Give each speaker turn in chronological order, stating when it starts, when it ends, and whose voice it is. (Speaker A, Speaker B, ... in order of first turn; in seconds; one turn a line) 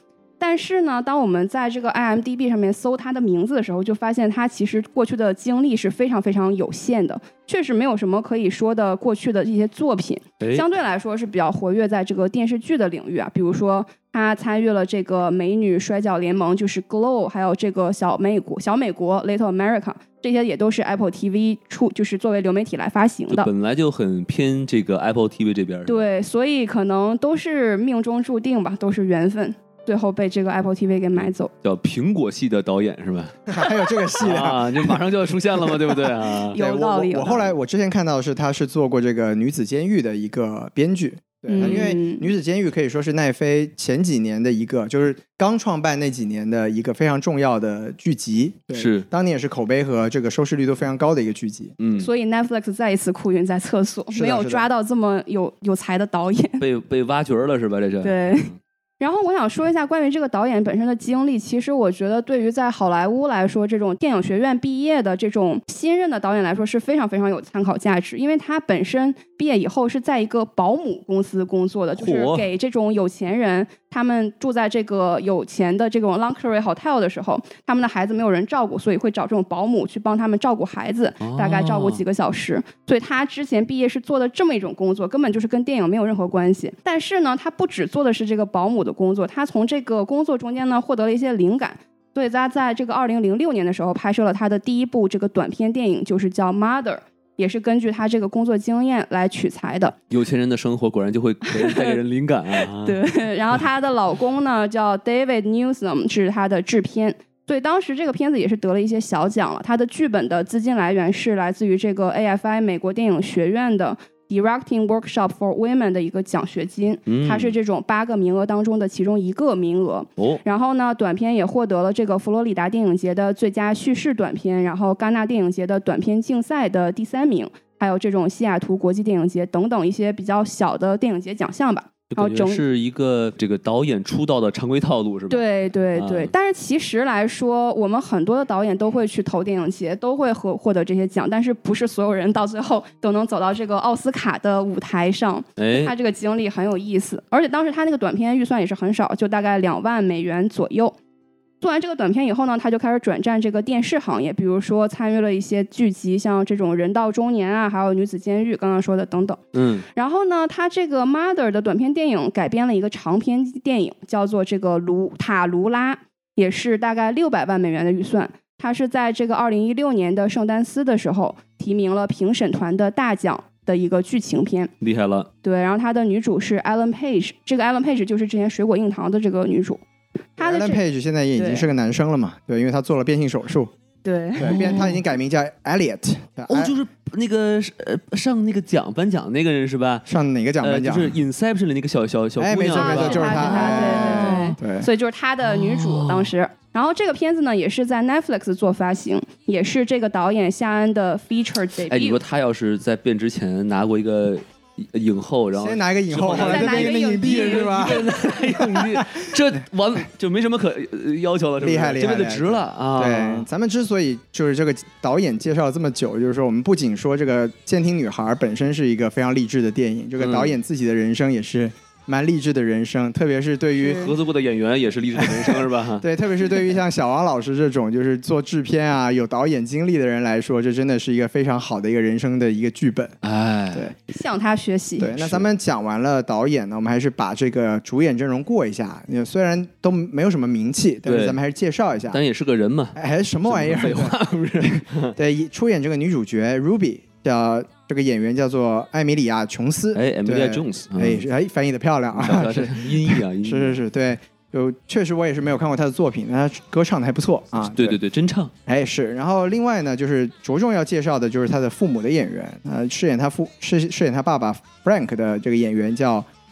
Speaker A: 0.4-23.5
Speaker B: 10.4-10.7
Speaker B: 23.3-26.1
Speaker A: 25.9-31.5
Speaker B: 31.2-33.6
Speaker C: 33.5-35.0
Speaker B: 34.2-36.5
Speaker C: 35.6-51.8
Speaker A: 36.5-37.5
Speaker A: 41.5-42.3
Speaker B: 41.6-42.0
Speaker B: 48.7-49.1
Speaker B: 51.8-52.1
Speaker A: 52.0-56.6
Speaker C: 54.1-54.7
Speaker B: 56.6-58.5
Speaker A: 58.0-100.0
Speaker B: 72.0-72.5
Speaker B: 81.2-82.0
Speaker B: 100.1-103.6
Speaker A: 101.5-102.0
Speaker A: 102.5-132.6
Speaker B: 117.1-117.5
Speaker B: 132.1-136.3
Speaker A: 135.3-151.0
Speaker B: 145.6-145.9
Speaker A: 151.6-159.4
Speaker B: 159.5-159.9
Speaker A: 159.9-174.7
Speaker B: 174.8-175.3
Speaker A: 175.4-179.8
Speaker A: 180.4-180.8
Speaker C: 180.4-183.7
Speaker A: 181.4-181.7
Speaker A: 184.0-184.9
Speaker C: 184.4-186.8
Speaker B: 184.4-184.9
Speaker B: 186.5-190.1
Speaker C: 190.1-191.2
Speaker B: 190.6-194.6
Speaker C: 192.4-194.9
Speaker A: 192.7-202.2
Speaker B: 195.4-196.3
Speaker B: 201.9-213.5
Speaker C: 205.5-209.2
Speaker A: 206.3-208.0
Speaker C: 211.6-224.1
Speaker B: 220.2-220.6
Speaker B: 223.8-226.0
Speaker C: 225.2-233.2
Speaker B: 233.2-233.9
Speaker A: 234.1-235.1
Speaker C: 235.0-242.2
Speaker B: 235.2-235.5
Speaker B: 241.1-241.4
Speaker B: 242.1-245.2
Speaker C: 243.0-258.0
Speaker B: 249.9-251.2
Speaker B: 252.2-253.8
Speaker B: 257.7-258.5
Speaker C: 258.7-266.3